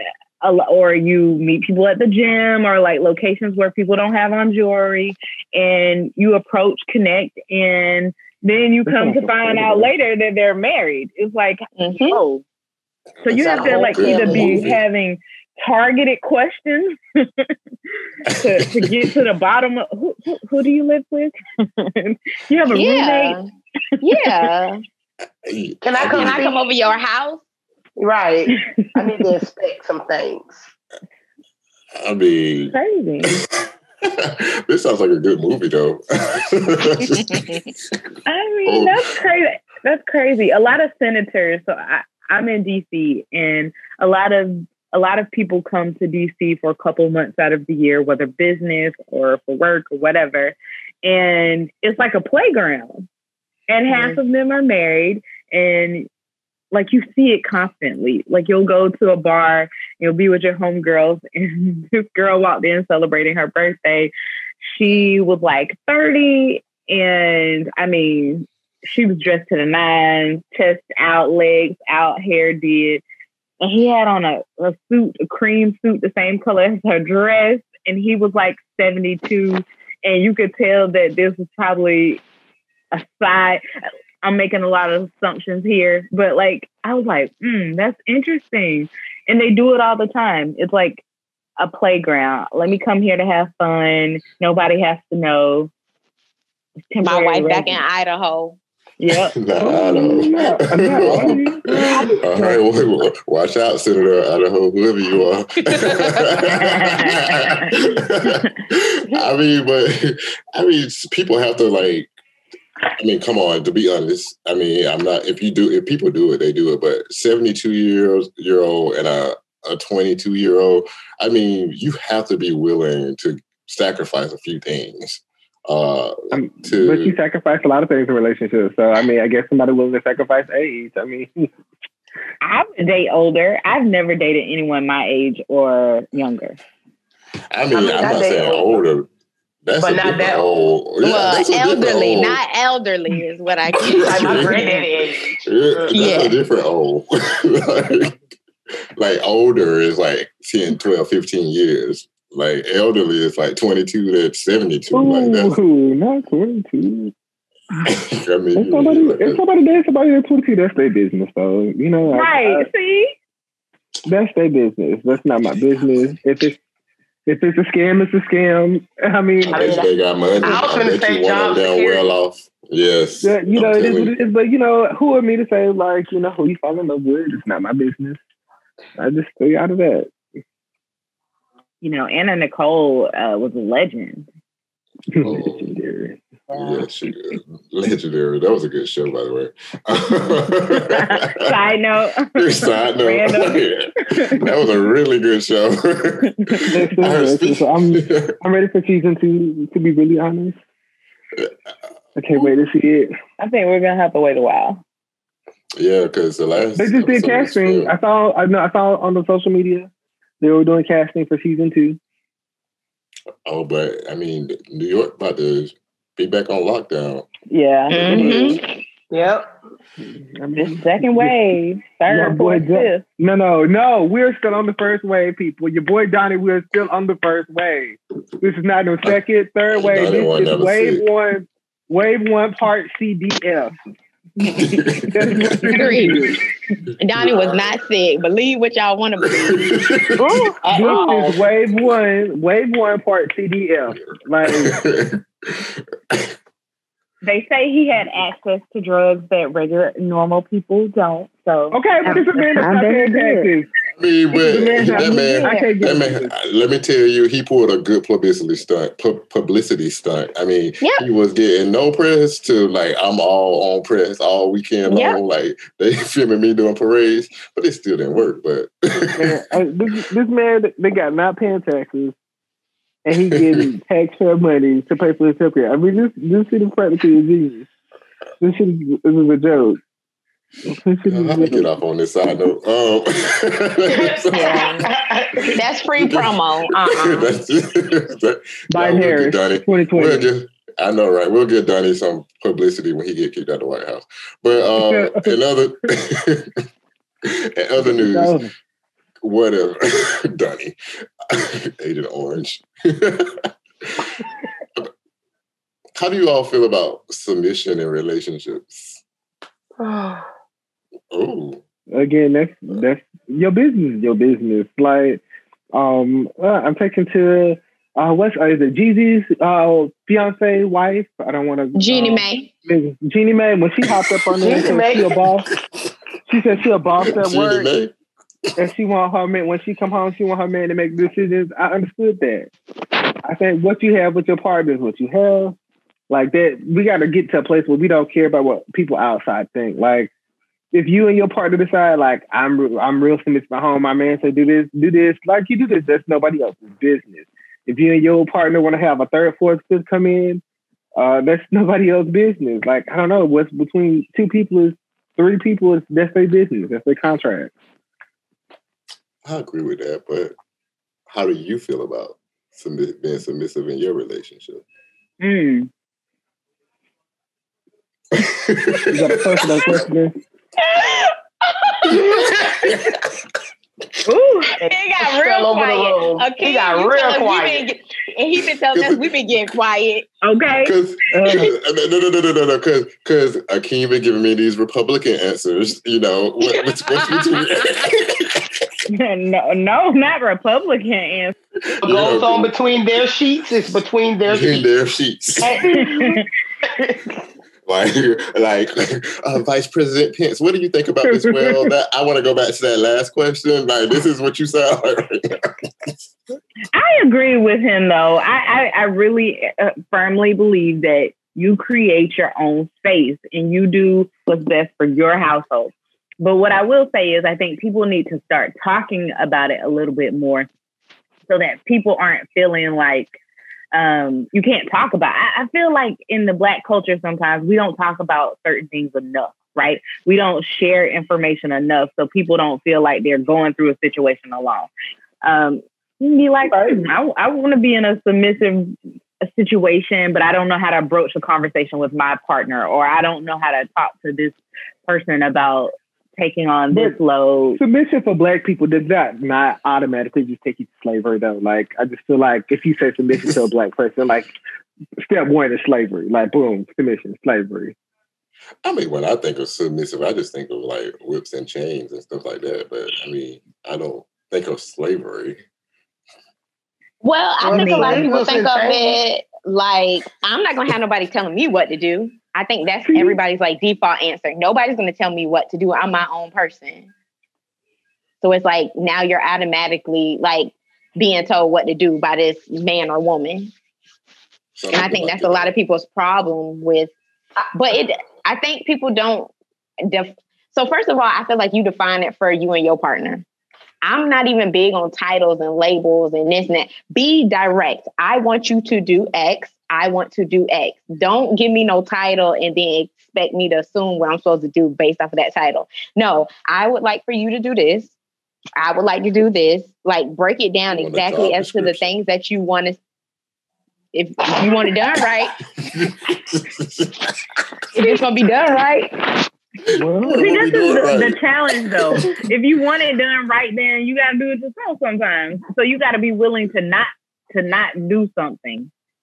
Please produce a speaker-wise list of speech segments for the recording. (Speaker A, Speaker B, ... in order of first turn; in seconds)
Speaker A: 0.4-12.4, 13.2-17.5, 18.3-23.4, 24.0-24.5, 28.5-29.0, 32.7-33.4, 38.3-53.1, 53.7-56.1, 56.7-64.1, 64.7-73.0, 73.6-82.2, 82.9-83.6, 84.2-91.0, 91.6-95.7, 96.9-97.8, 99.0-99.3, 101.1-102.0, 105.7-108.3, 132.4-136.6, 162.1-163.1, 181.8-184.3, 190.8-194.4, 203.4-204.8, 217.5-218.5, 220.6-223.0, 240.2-241.1, 247.2-253.5, 365.2-365.7, 374.1-374.6, 380.2-381.5, 388.9-391.3, 395.7-396.2, 406.7-420.5, 421.3-423.1, 423.7-434.7, 435.2-447.6, 520.1-528.7
Speaker B: 8.8-9.9, 99.6-102.6, 126.3-131.5, 154.9-157.1, 158.6-162.7, 164.0-166.6, 167.2-169.8, 173.2-178.2, 179.0-180.1, 185.1-186.7, 196.7-200.6, 202.2-203.1, 206.8-209.9, 210.4-212.0, 220.3-221.3, 222.1-233.7, 235.1-236.4, 240.4-244.8, 251.7-253.7, 254.3-256.3, 269.2-272.1, 273.0-277.7, 278.4-279.8, 280.6-281.7, 288.7-290.3, 294.8-295.4, 297.8-298.5, 311.9-315.2, 315.7-325.5, 326.3-327.7, 328.6-332.5, 333.2-335.6, 336.1-340.1, 340.7-350.4, 351.0-357.5, 368.9-370.1, 401.0-401.7, 436.4-436.8, 446.7-447.0, 447.6-454.3, 455.0-457.7, 472.9-473.2, 519.7-520.4
Speaker C: 11.8-12.2, 13.6-14.6, 22.6-23.4, 24.0-24.8, 26.0-27.4, 53.9-54.2, 97.0-98.6, 141.0-144.8, 145.9-146.3, 217.9-218.6, 235.7-236.2, 237.0-239.7, 252.1-253.1, 254.8-255.6, 264.9-265.2, 284.3-284.9, 285.5-287.3, 321.7-322.5, 370.7-371.1, 371.8-372.4, 374.6-380.1, 467.0-476.9, 478.2-483.5, 484.7-486.9, 487.5-489.3, 489.9-493.2, 493.8-507.9, 508.6-512.8, 513.9-515.4, 517.7-519.2
Speaker D: 13.2-14.8, 18.3-19.0, 25.4-26.4, 32.0-32.7, 33.3-37.9, 38.6-38.9, 99.1-112.1, 112.9-127.2, 137.5-139.1, 139.6-142.4, 143.7-144.7, 145.4-148.2, 149.0-155.6, 157.8-159.4, 169.5-174.1, 185.2-185.7, 186.5-191.4, 192.3-198.4, 205.8-207.9, 213.4-217.3, 217.9-218.6, 229.7-231.0, 234.4-235.8, 237.2-237.6, 239.2-240.2, 244.4-246.3, 254.0-269.4, 273.3-273.6, 281.1-284.9, 285.9-296.6, 297.2-298.4, 299.2-300.8, 301.3-304.2, 306.0-309.0, 311.1-311.6, 323.8-324.3, 327.0-327.9, 359.2-360.3, 361.1-364.6, 368.1-369.8, 371.9-373.1, 378.7-379.4, 380.6-388.5, 391.6-392.8, 394.3-395.6, 397.7-405.9, 458.6-465.4, 484.6-485.5, 510.7-511.8, 515.7-517.4, 519.7-521.2, 521.7-522.1
Speaker E: 13.6-14.5, 25.8-26.6, 28.0-30.7, 137.7-138.8, 139.8-140.9, 143.8-146.2, 169.5-172.1, 219.1-219.5, 240.6-241.4, 283.9-285.6, 309.8-310.3, 324.4-325.2, 374.6-377.7, 391.8-394.6, 395.4-397.0, 467.4-469.0